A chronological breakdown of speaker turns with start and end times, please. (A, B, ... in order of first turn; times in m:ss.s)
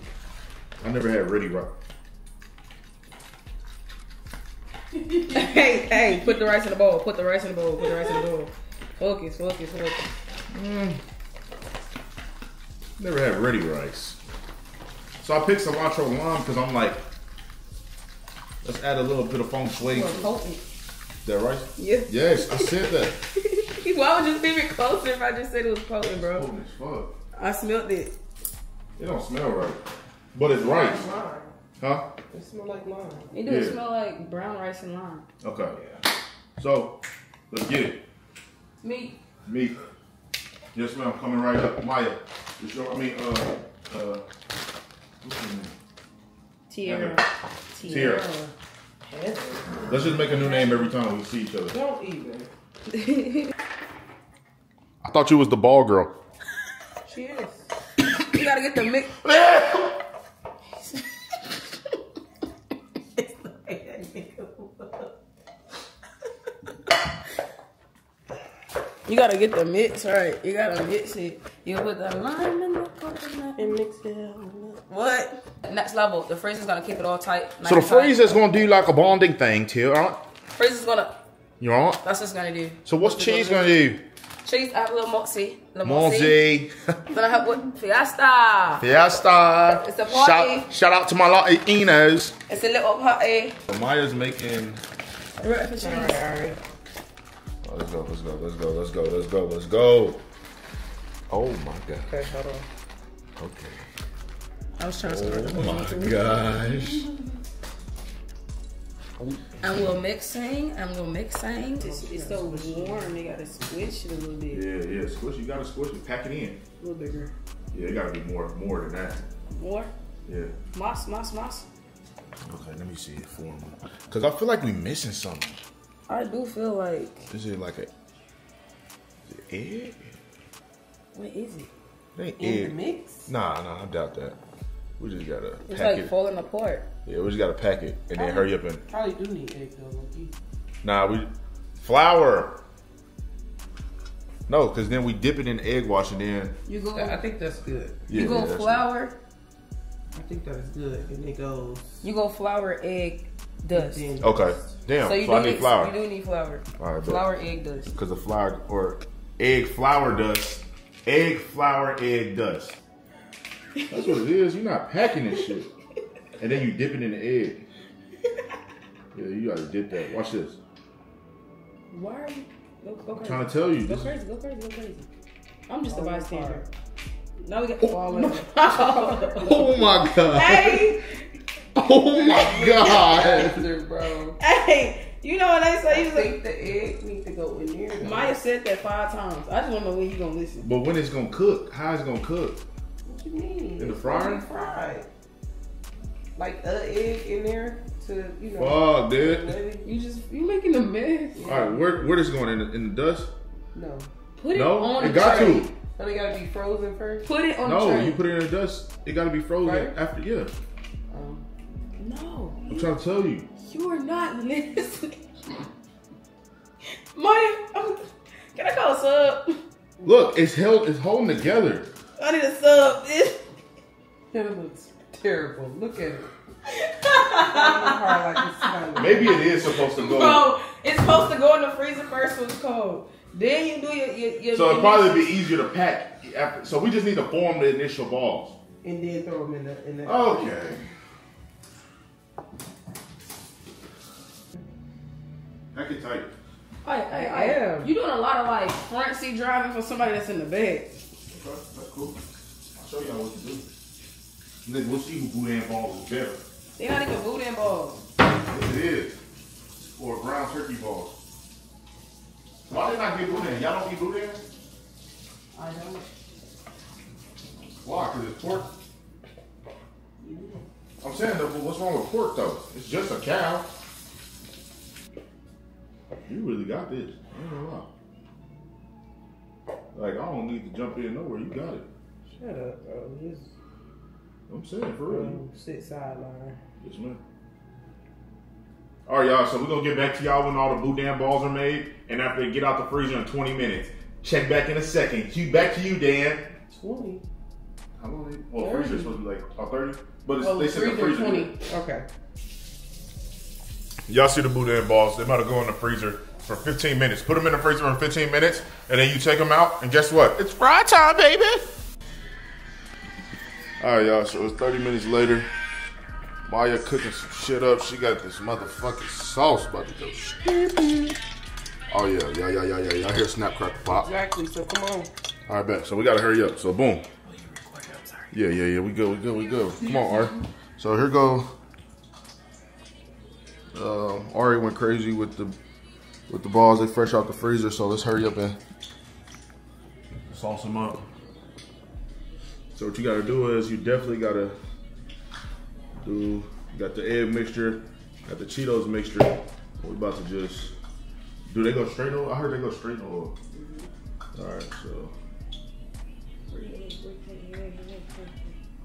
0:00.8-0:01.7 A
0:05.0-0:05.8 B
0:05.3-0:10.0 C
0:10.5-0:11.0 A
0:13.0-0:14.2 A
0:15.2-0:17.0 A
0:18.6-0:20.3 A
0:19.8-0:20.6 C
0:21.2-0:23.2 A
0:21.8-0:22.7 C
0:23.3-0:26.4 C
0:26.2-0:27.1 A
0:27.3-0:28.1 C
0:29.0-0:29.8 A
0:30.3-0:31.0 A
0:30.6-0:31.5 B
0:31.8-0:32.1 A
0:32.3-0:33.3 B
0:33.3-0:35.2 C
0:33.4-0:33.8 A
0:35.4-0:35.8 A
0:35.7-0:36.0 B
0:36.6-0:37.0 A
0:37.5-0:38.0 A
0:38.8-0:39.2 C
0:39.4-0:39.8 A
0:40.7-0:44.2 A
0:45.2-0:45.7 A
0:46.7-0:48.5 C
0:46.8-0:47.2 A
0:47.8-0:48.3 A
0:49.0-0:50.4 B
0:49.8-0:51.8 A
0:50.3-0:50.7 C
0:51.7-0:52.5 B
0:52.9-0:53.5 C
0:55.0-0:56.1 A
0:57.0-0:57.6 B
0:58.3-0:59.2 C
0:59.2-0:59.9 A
1:03.4-1:05.0 B
1:09.0-1:13.8 C
1:13.6-1:15.0 B
1:14.9-1:18.2 C
1:17.6-1:20.2 A
1:20.5-1:21.2 C
1:21.6-1:22.0 A
1:22.0-1:22.8 C
1:22.8-1:24.0 A
1:23.0-1:23.8 B
1:24.4-1:26.4 C
1:25.8-1:27.0 A
1:27.1-1:28.8 C
1:28.8-1:32.4 A
1:29.8-1:30.7 C
1:32.5-1:33.6 C
1:33.7-1:34.8 A
1:35.4-1:36.2 C
1:35.8-1:36.6 B
1:37.6-1:40.2 A
1:41.3-1:42.1 A
1:42.0-1:42.7 B
1:43.4-1:43.8 A
1:44.8-1:46.2 C
1:45.0-1:47.1 A
1:49.6-1:54.6 C
1:51.8-1:53.1 B
1:54.5-1:56.6 A
1:56.8-1:57.3 C
1:56.8-1:57.3 B
1:57.7-1:59.2 A
1:59.5-1:59.9 C
2:00.2-2:00.5 A
2:00.7-2:01.6 C
2:02.4-2:05.6 A
2:06.1-2:07.3 C
2:07.3-2:07.9 A
2:09.3-2:10.1 A
2:11.1-2:11.7 C
2:12.2-2:14.4 A
2:12.4-2:13.3 B
2:15.0-2:16.1 A
2:15.7-2:16.9 C
2:17.0-2:18.8 A
2:18.9-2:20.3 B
2:20.8-2:22.6 A
2:24.5-2:26.5 A
2:26.6-2:27.2 C
2:26.9-2:28.0 B
2:28.1-2:28.8 A
2:28.1-2:29.2 C
2:30.1-2:32.0 B
2:32.0-2:34.1 C
2:33.7-2:34.7 B
2:34.2-2:35.9 A
2:35.0-2:37.9 C
2:36.8-2:37.2 A
2:37.9-2:42.8 A
2:43.9-2:45.7 A
2:46.4-2:47.6 A
2:49.1-2:50.6 A
2:51.9-2:55.1 C
2:53.1-2:54.1 A
2:55.7-2:56.6 C
2:55.9-2:56.7 B
2:57.4-3:01.1 C
2:57.9-2:59.3 B
2:59.4-3:01.0 A
3:01.7-3:03.6 A
3:02.1-3:04.4 B
3:04.4-3:06.3 C
3:05.8-3:08.3 B
3:08.0-3:10.7 C
3:10.6-3:12.6 A
3:13.0-3:15.1 B
3:13.8-3:14.4 A
3:16.4-3:19.9 B
3:18.6-3:19.6 A
3:19.8-3:21.5 C
3:21.3-3:22.1 B
3:21.4-3:23.3 A
3:23.7-3:24.1 B
3:24.4-3:25.7 C
3:24.5-3:25.7 A
3:25.0-3:27.2 B
3:27.2-3:28.2 C
3:27.6-3:30.5 A
3:29.6-3:30.0 B
3:31.1-3:31.4 B
3:32.0-3:32.9 C
3:32.7-3:33.5 A
3:33.6-3:35.2 C
3:36.9-3:39.6 C
3:40.0-3:41.9 A
3:42.2-3:43.4 C
3:44.3-3:46.3 B
3:46.7-3:55.3 C
3:47.3-3:49.5 B
3:49.0-3:50.4 A
3:54.5-3:58.6 A
3:58.8-4:00.7 B
4:00.0-4:00.8 A
4:05.7-4:06.3 A
4:06.8-4:11.0 C
4:07.1-4:07.9 B
4:11.3-4:12.2 A
4:12.8-4:13.7 A
4:14.6-4:16.4 A
4:16.8-4:18.0 C
4:18.5-4:19.2 A
4:19.9-4:21.1 A
4:22.7-4:24.4 A
4:25.5-4:26.0 C
4:27.8-4:28.7 A
4:30.2-4:30.6 B
4:31.0-4:33.7 A
4:36.3-4:37.9 A
4:39.9-4:41.9 A
4:42.4-4:43.5 B
4:44.5-4:45.4 A
4:45.0-4:46.6 B
4:46.8-4:47.2 A
4:49.1-4:56.5 A
4:56.7-4:57.2 B
4:58.0-5:01.5 A
4:58.5-4:59.2 B
5:00.4-5:02.0 B
5:04.1-5:11.6 A
5:13.8-5:15.5 A
5:16.5-5:20.8 A
5:21.9-5:24.1 A
5:24.0-5:25.1 B
5:25.5-5:27.1 A
5:28.3-5:31.5 A
5:33.7-5:35.6 A
5:36.3-5:38.6 A
5:40.3-5:41.0 A
5:42.8-5:44.6 A
5:46.0-5:50.7 A
5:51.5-5:53.3 A
5:53.6-5:53.8 B
5:54.3-5:55.1 A
5:56.5-5:58.6 C